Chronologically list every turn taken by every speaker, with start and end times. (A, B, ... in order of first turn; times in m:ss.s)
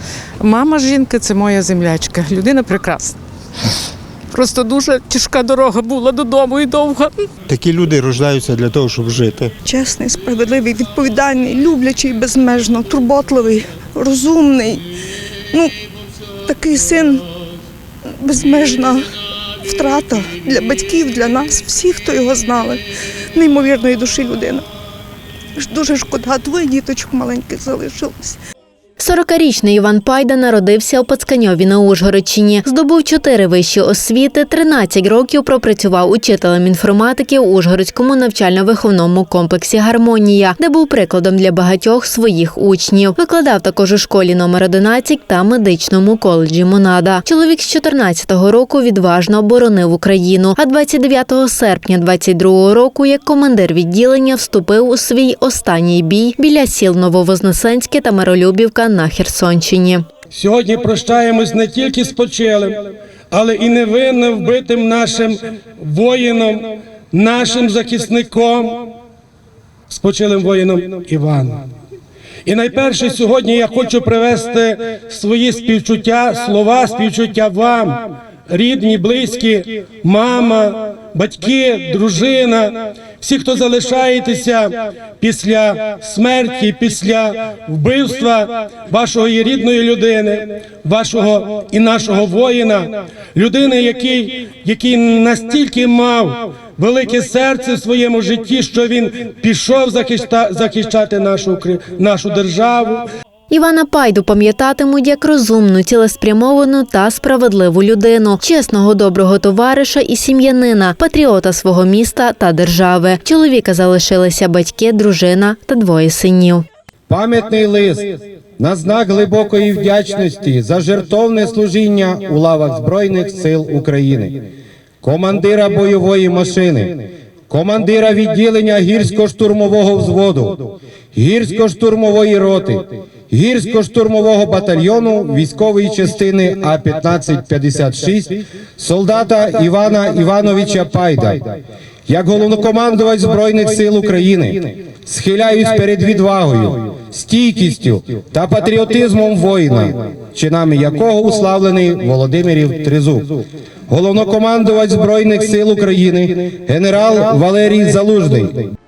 0:00.4-0:03.2 A
0:04.3-0:07.3 A
0:07.5-0:09.5 B
0:09.6-0:14.8 C
0:16.5-0:17.2 C
0:18.2-0:19.0 C
0:19.6-0:22.8 C
0:23.4-0:24.6 C
0:25.6-0:28.4 C
0:29.0-1:00.0 D
1:00.3-1:02.8 E
1:03.3-1:08.9 E
1:09.9-1:11.6 E
1:12.5-1:43.0 E
1:43.5-1:56.6 D
1:57.1-2:04.4 F
2:05.0-2:21.6 F
2:22.1-2:38.7 F